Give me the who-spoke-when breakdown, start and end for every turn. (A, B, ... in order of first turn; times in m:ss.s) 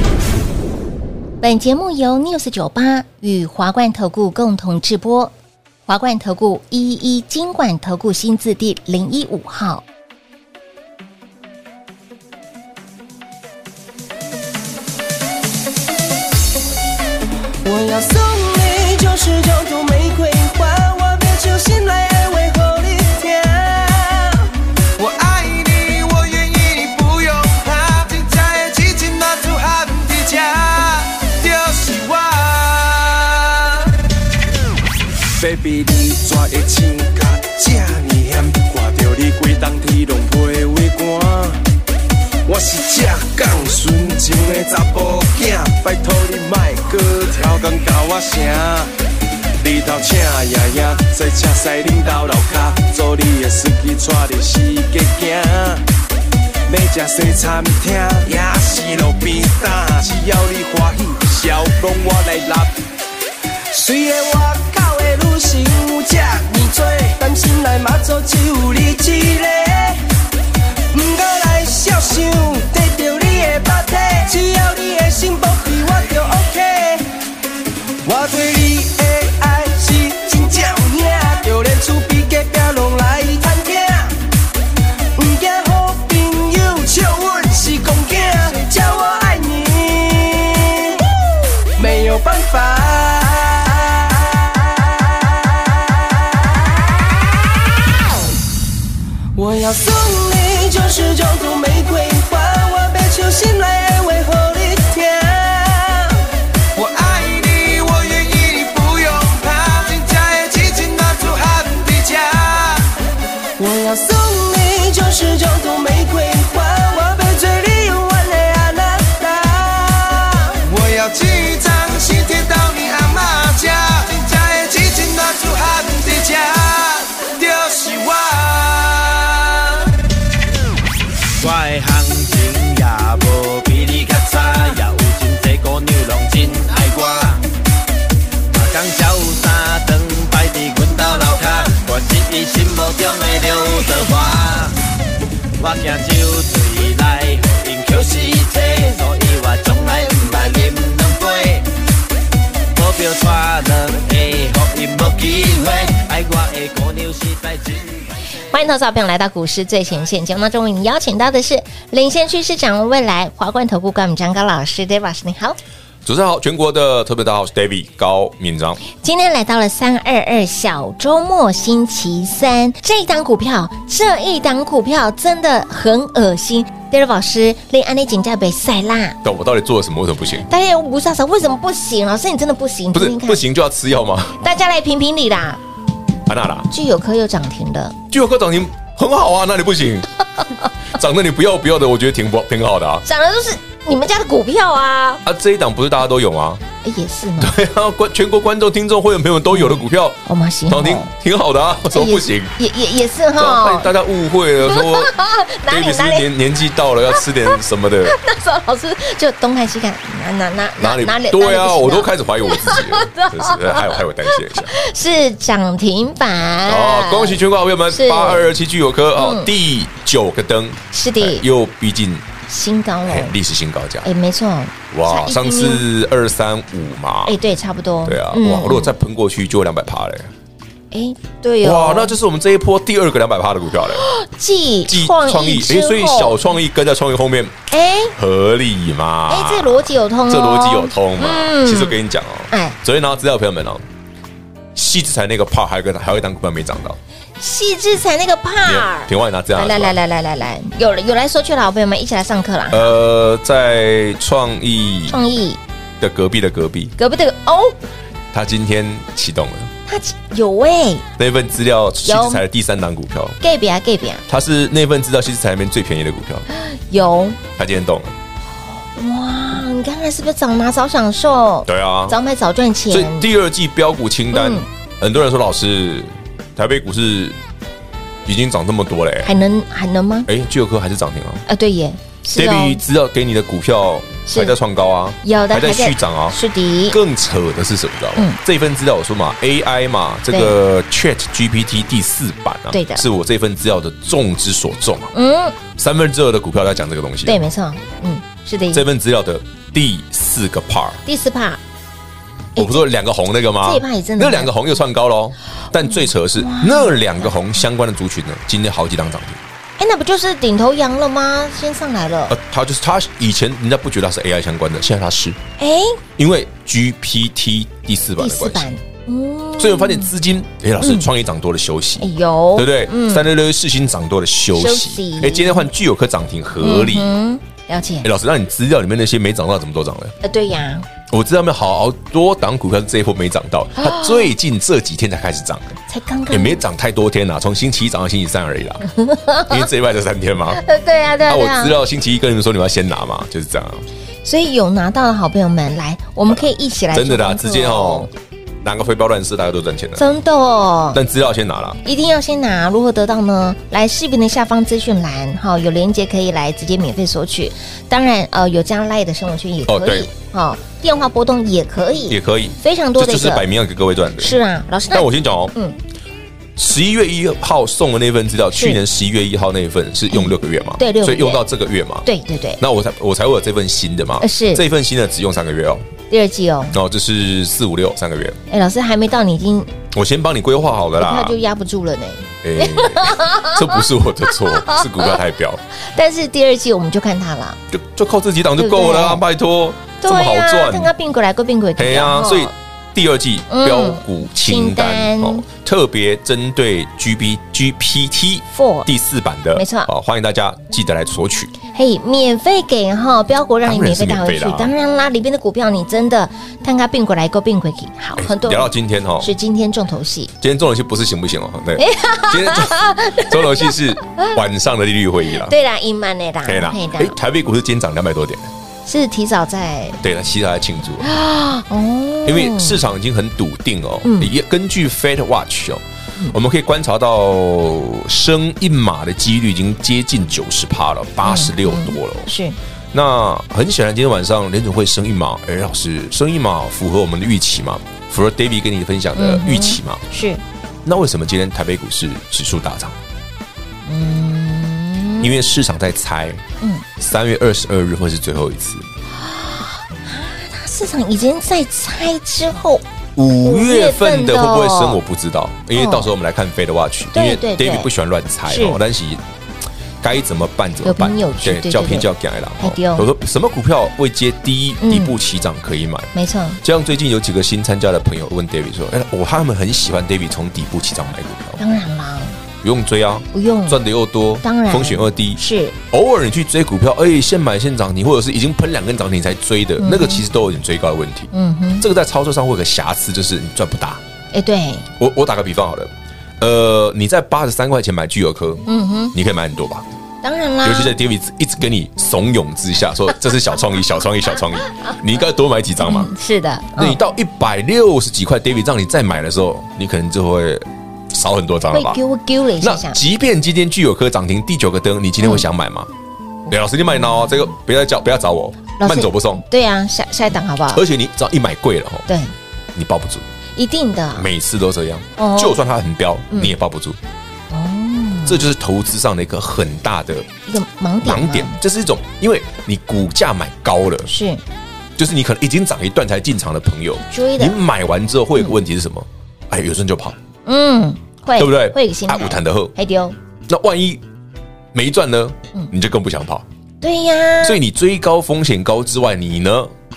0:01.4-0:05.3 A
0:05.9-0:09.8 A
0:17.6-0:33.9 B
0:35.3-0:41.6 B
0:42.4-0:48.9 B
0:49.6-0:55.8 B
0:56.7-1:02.7 B
1:03.7-1:10.0 B
1:10.9-1:17.1 B
1:18.0-1:24.2 B
1:25.1-1:31.1 B
1:31.8-1:36.6 B
1:39.3-1:52.9 B
1:53.6-2:09.8 B
2:11.4-2:17.4 C
2:18.5-2:24.8 C
2:25.6-2:31.7 C
2:32.7-2:38.3 C
2:38.5-2:45.6 A
2:46.0-2:48.8 D
2:48.9-2:59.2 A
2:59.2-3:00.5 D
3:00.4-3:03.4 A
3:02.9-3:04.4 D
3:04.4-3:05.6 A
3:06.3-3:06.7 D
3:06.7-3:08.0 A
3:08.1-3:10.1 D
3:10.9-3:13.0 D
3:13.0-3:15.2 A
3:15.2-3:16.6 D
3:16.8-3:17.5 A
3:17.4-3:22.5 D
3:19.5-3:21.1 A
3:21.9-3:23.9 A
3:23.4-3:25.1 D
3:24.6-3:26.3 A
3:25.7-3:28.2 D
3:28.0-3:38.5 A
3:30.8-3:34.8 D
3:36.6-3:42.3 D
3:39.2-3:39.5 A
3:40.9-3:41.4 A
3:42.5-3:43.3 A
3:43.1-3:44.1 D
3:44.0-3:45.8 A
3:44.9-3:47.4 D
3:47.2-3:48.9 A
3:48.0-3:50.3 D
3:50.9-3:52.1 A
3:51.6-3:54.1 D
3:53.9-3:56.4 A
3:54.9-3:57.6 D
3:57.7-3:58.1 A
3:58.1-4:03.8 D
3:59.3-4:02.0 A
4:02.5-4:02.8 A
4:04.7-4:07.0 D
4:07.4-4:12.9 A
4:08.6-4:10.0 D
4:12.7-4:15.2 D
4:15.1-4:15.6 A
4:16.0-4:16.9 D
4:17.0-4:17.8 A
4:18.3-4:19.7 D
4:19.9-4:21.0 A
4:21.2-4:23.4 D
4:22.0-4:22.4 A
4:23.4-4:24.2 A
4:24.3-4:26.4 D
4:26.5-4:27.4 A
4:27.6-4:28.1 D
4:29.0-4:33.3 A
4:31.6-4:32.2 D
4:32.9-4:37.4 D
4:34.3-4:34.7 A
4:38.2-4:39.3 D
4:39.2-4:40.3 A
4:40.3-4:41.4 D
4:41.5-4:42.8 A
4:42.3-4:46.4 D
4:44.3-4:44.6 A
4:45.2-4:47.0 A
4:46.9-4:55.1 D
4:50.3-4:50.6 A
4:52.7-4:53.0 A
4:55.1-4:55.6 A
4:55.7-4:57.4 D
4:57.2-4:58.8 A
4:58.7-5:01.0 D
5:01.0-5:01.6 A
5:02.6-5:02.8 A
5:02.6-5:09.4 D
5:03.6-5:04.5 A
5:05.9-5:07.3 A
5:09.8-5:12.4 A
5:12.3-5:15.4 D
5:15.6-5:16.0 A
5:16.2-5:18.7 D
5:18.2-5:20.1 A
5:19.6-5:27.1 D
5:20.8-5:21.1 A
5:22.0-5:23.3 A
5:24.5-5:25.7 A
5:26.6-5:28.1 A
5:28.0-5:30.1 D
5:30.2-5:30.9 A
5:31.1-5:35.8 D
5:33.8-5:34.3 A
5:35.9-5:36.6 A
5:36.3-5:38.9 D
5:38.9-5:39.6 A
5:39.4-5:40.6 D
5:40.6-5:41.8 A
5:41.2-5:43.8 D
5:44.2-5:48.1 A
5:46.3-5:48.1 D
5:48.6-5:50.0 D
5:50.0-5:51.0 A
5:50.9-5:51.8 D
5:51.8-6:03.4 A
5:59.7-6:00.1 D
6:02.1-6:04.4 D
6:04.2-6:05.8 A
6:04.9-6:05.5 D
6:06.6-6:12.1 D
6:08.5-6:08.8 A
6:10.1-6:11.4 A
6:12.0-6:12.6 A
6:12.6-6:15.8 D
6:14.2-6:14.6 A
6:16.1-6:16.8 A
6:16.7-6:18.4 D
6:18.5-6:19.7 A
6:19.9-6:21.4 D
6:21.0-6:25.2 A
6:22.4-6:25.6 D
6:25.7-6:27.6 A
6:27.7-6:30.9 D
6:28.6-6:29.2 A
6:30.0-6:32.5 A
6:31.8-6:41.5 D
6:33.5-6:35.4 A
6:38.5-6:38.9 A
6:39.5-6:39.9 A
6:41.7-6:50.3 A
6:43.6-6:44.7 D
6:48.2-6:49.3 D
6:50.4-6:55.5 D
6:51.8-6:54.4 A
6:55.3-6:57.2 A
6:56.4-6:58.5 D
6:58.8-7:00.0 A
7:00.0-7:01.1 D
7:01.0-7:02.8 A
7:02.2-7:12.3 D
7:04.0-7:04.3 A
7:11.2-7:12.6 A
7:12.9-7:20.0 D
7:19.2-7:20.4 A
7:20.8-7:23.0 D
7:23.8-7:25.4 A
7:25.2-7:26.4 D
7:27.0-7:28.9 D
7:29.1-7:32.8 A
7:33.2-7:39.2 D
7:33.4-7:35.0 A
7:35.7-7:36.1 A
7:37.1-7:37.9 A
7:38.4-7:38.8 A
7:40.0-7:51.6 D
7:40.8-7:43.1 A
7:44.8-7:45.2 A
7:46.1-7:46.6 A
7:51.6-7:52.4 A
7:52.6-8:04.0 D
7:53.3-7:53.8 A
7:54.4-7:55.8 A
7:59.8-8:00.2 A
8:01.3-8:01.8 A
8:04.3-8:04.9 A
8:05.0-8:09.9 D
8:08.7-8:09.1 A
8:10.2-8:10.9 A
8:10.6-8:16.1 D
8:15.8-8:17.0 A
8:16.8-8:22.0 D
8:21.7-8:23.0 A
8:22.6-8:25.9 D
8:25.2-8:25.4 A
8:26.5-8:29.4 D
8:28.8-8:30.8 A
8:30.7-8:32.1 D
8:32.1-8:32.3 A
8:32.7-8:33.3 D
8:33.6-8:34.3 A
8:34.1-8:37.0 D
8:35.2-8:35.6 A
8:37.5-8:38.5 A
8:38.2-8:40.3 D
8:40.5-8:41.6 A
8:41.0-8:44.1 D
8:44.0-8:44.4 A
8:45.0-8:50.2 D
8:47.1-8:47.6 A
8:50.4-8:53.2 A
8:51.4-8:52.7 D
8:53.5-8:54.0 D
8:54.7-8:56.4 D
8:56.8-8:57.6 A
8:57.4-8:59.7 D